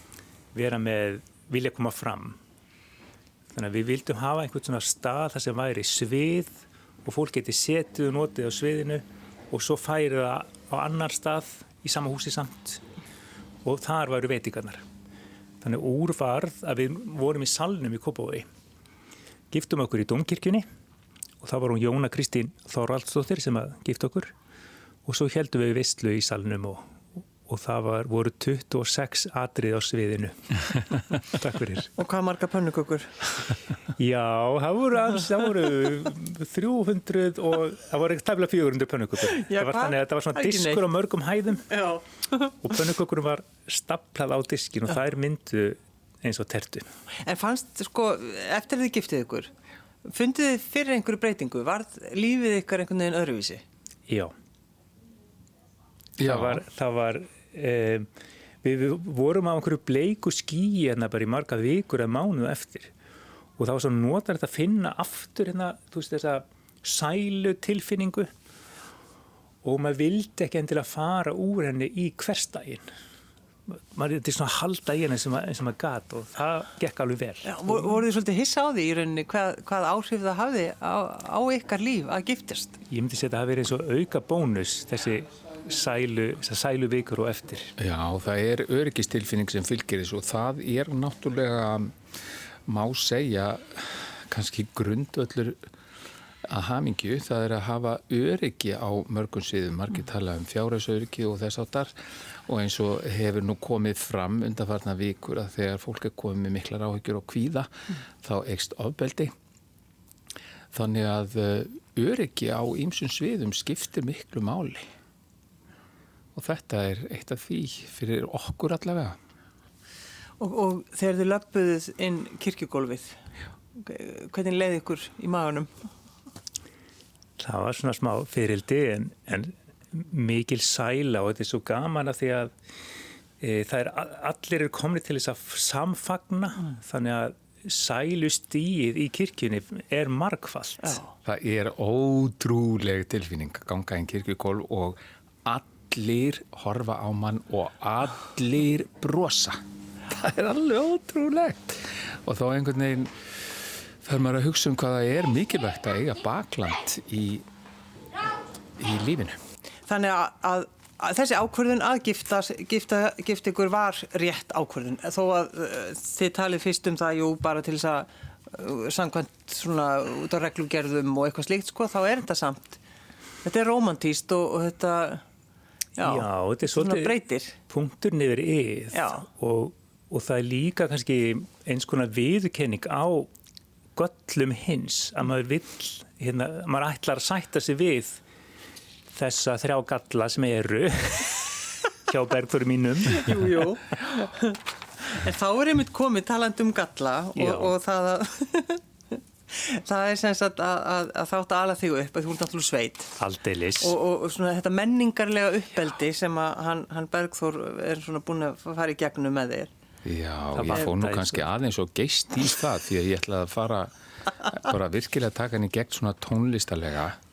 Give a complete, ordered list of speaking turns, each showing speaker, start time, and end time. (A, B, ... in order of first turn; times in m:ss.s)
0:00.5-0:02.4 A
0:03.5-0:12.8 A
0:13.6-0:14.8 A
0:15.6-0:18.5 A
0:19.5-0:20.6 A
0:21.4-0:24.3 A
0:25.0-0:26.8 A
0:27.4-0:31.9 A
0:32.0-0:33.2 B
0:34.0-0:41.7 A
0:39.2-0:40.8 B
0:41.7-0:42.6 B
0:42.6-0:46.9 A
0:47.2-0:49.5 B
0:50.0-0:53.6 B
0:54.1-0:54.3 A
0:56.2-0:56.6 C
0:56.2-0:58.1 A
0:58.6-1:02.9 A
1:03.6-1:08.3 A
1:09.6-1:12.8 A
1:13.7-1:18.0 A
1:17.4-1:22.8 B
1:22.9-1:27.7 A
1:27.8-1:31.9 C
1:32.7-1:35.7 C
1:36.4-1:49.3 C
1:50.7-1:54.9 C
1:56.3-1:59.2 C
2:00.4-2:03.2 B
2:03.7-2:05.8 B
2:07.4-2:12.5 A
2:13.4-2:21.0 A
2:21.2-2:37.4 C
2:38.8-2:39.4 C
2:39.9-2:52.8 B
2:53.4-2:55.2 B
2:56.0-2:57.5 B
2:56.0-3:03.3 A
2:58.9-2:59.2 B
3:03.9-3:08.2 A
3:09.1-3:13.5 A
3:13.1-3:18.8 B
3:17.4-3:17.7 A
3:19.5-3:23.2 B
3:23.2-3:24.0 A
3:23.8-3:29.7 B
3:30.0-3:37.2 C
3:30.5-3:31.4 A